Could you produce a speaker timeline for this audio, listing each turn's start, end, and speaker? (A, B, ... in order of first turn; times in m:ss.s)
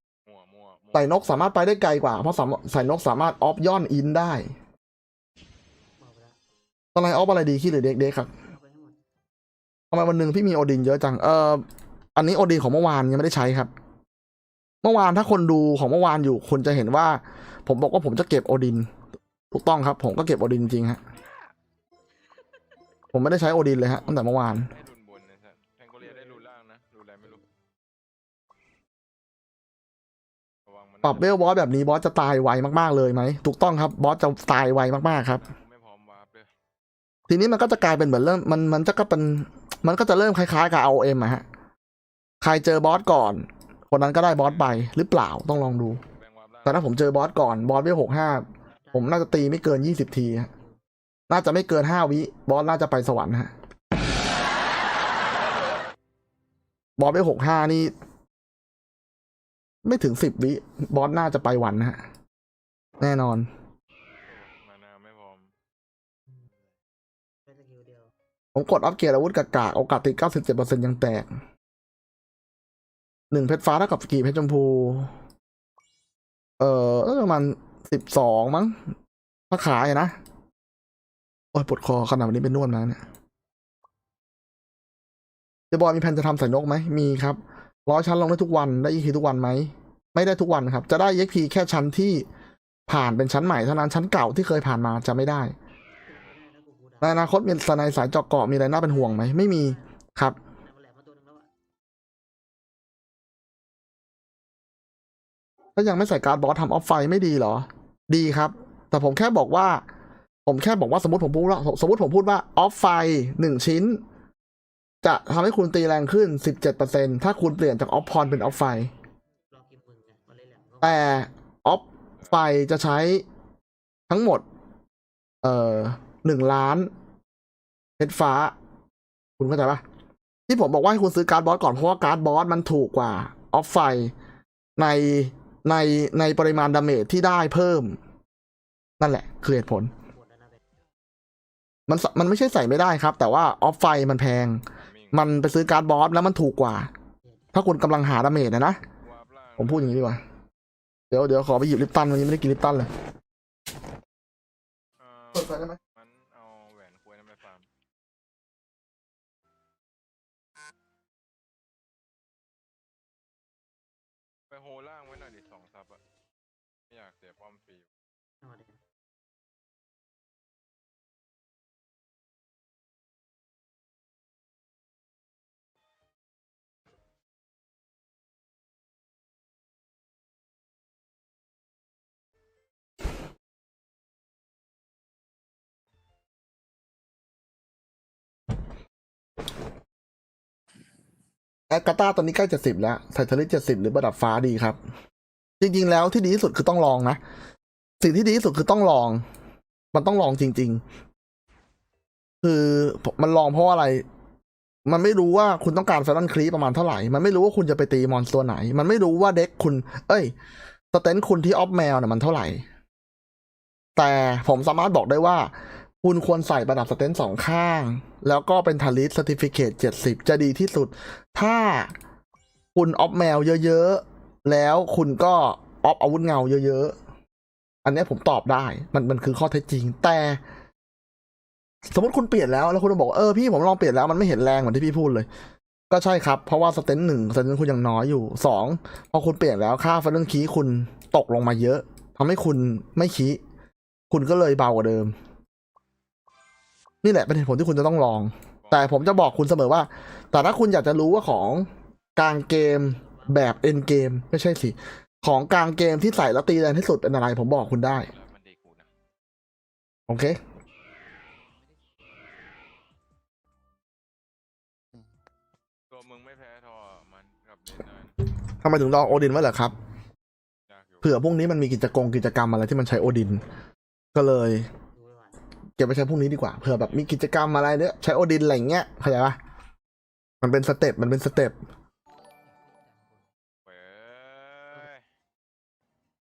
0:00.2-0:01.4 A
0:00.9-0:04.5 B
0:06.0-0:06.4 C
0:06.9-0:08.3 B
0:08.4-0:09.0 C
0:09.9-0:13.7 B
0:14.8-0:18.9 B
0:19.5-0:21.0 B
0:22.3-0:22.6 C
0:23.1-0:24.7 B
0:23.8-0:27.4 A
0:26.0-0:26.5 C
0:27.2-0:27.5 C
0:30.6-0:31.7 A
0:31.0-0:35.4 B
0:35.2-0:36.5 A
0:37.3-0:41.4 B
0:42.4-0:46.0 B
0:44.3-0:44.7 A
0:46.1-0:46.9 A
0:46.6-0:50.5 B
0:48.8-0:50.8 C
0:51.3-0:53.5 B
0:57.0-0:57.9 B
0:59.8-1:02.0 B
1:03.0-1:03.5 B
1:04.2-1:05.5 A
1:07.4-1:08.1 C
1:08.5-1:11.3 B
1:13.3-1:15.1 B
1:16.6-1:18.8 B
1:19.5-1:20.2 B
1:21.5-1:23.0 B
1:25.7-1:32.2 B
1:32.9-1:35.5 B
1:36.0-1:37.4 C
1:37.0-1:40.4 B
1:38.8-1:40.0 C
1:40.5-1:41.5 C
1:45.8-1:49.8 B
1:50.4-1:54.0 B
1:55.0-1:58.9 B
1:59.5-2:01.2 C
2:00.8-2:03.2 B
2:02.2-2:02.5 A
2:04.1-2:04.4 B
2:05.4-2:06.9 B
2:08.0-2:08.5 B
2:09.4-2:09.8 B
2:10.5-2:14.1 B
2:14.8-2:18.0 B
2:19.0-2:19.9 B
2:20.0-2:20.6 C
2:21.9-2:26.9 B
2:24.8-2:25.3 A
2:27.2-2:27.5 C
2:27.5-2:28.8 B
2:29.0-2:30.1 A
2:29.6-2:30.2 B
2:31.1-2:32.9 B
2:35.0-2:37.7 A
2:35.3-2:35.8 B
2:44.5-2:46.0 A
2:46.9-2:47.9 A
2:48.4-2:48.8 C
3:11.7-3:14.8 B
3:15.6-3:17.2 B
3:18.0-3:19.2 B
3:19.9-3:20.8 B
3:22.4-3:24.0 B
3:24.8-3:30.3 B
3:30.9-3:32.6 B
3:34.0-3:41.9 B
3:42.7-3:47.0 B
3:47.8-3:50.4 B
3:51.9-3:55.3 B
3:55.9-4:03.4 B
4:04.1-4:05.1 B
4:07.0-4:18.1 B
4:08.6-4:09.5 A
4:12.6-4:13.7 C
4:17.7-4:18.9 A
4:20.1-4:20.4 B
4:25.9-4:28.2 A
4:28.6-4:29.7 B
4:30.7-4:31.2 A
4:31.0-4:33.4 B
4:34.1-4:34.7 B
4:34.9-4:35.4 C
4:35.8-4:39.4 B
4:36.6-4:37.1 A
4:40.4-4:41.6 B
4:42.6-4:43.2 C
4:43.6-4:45.0 A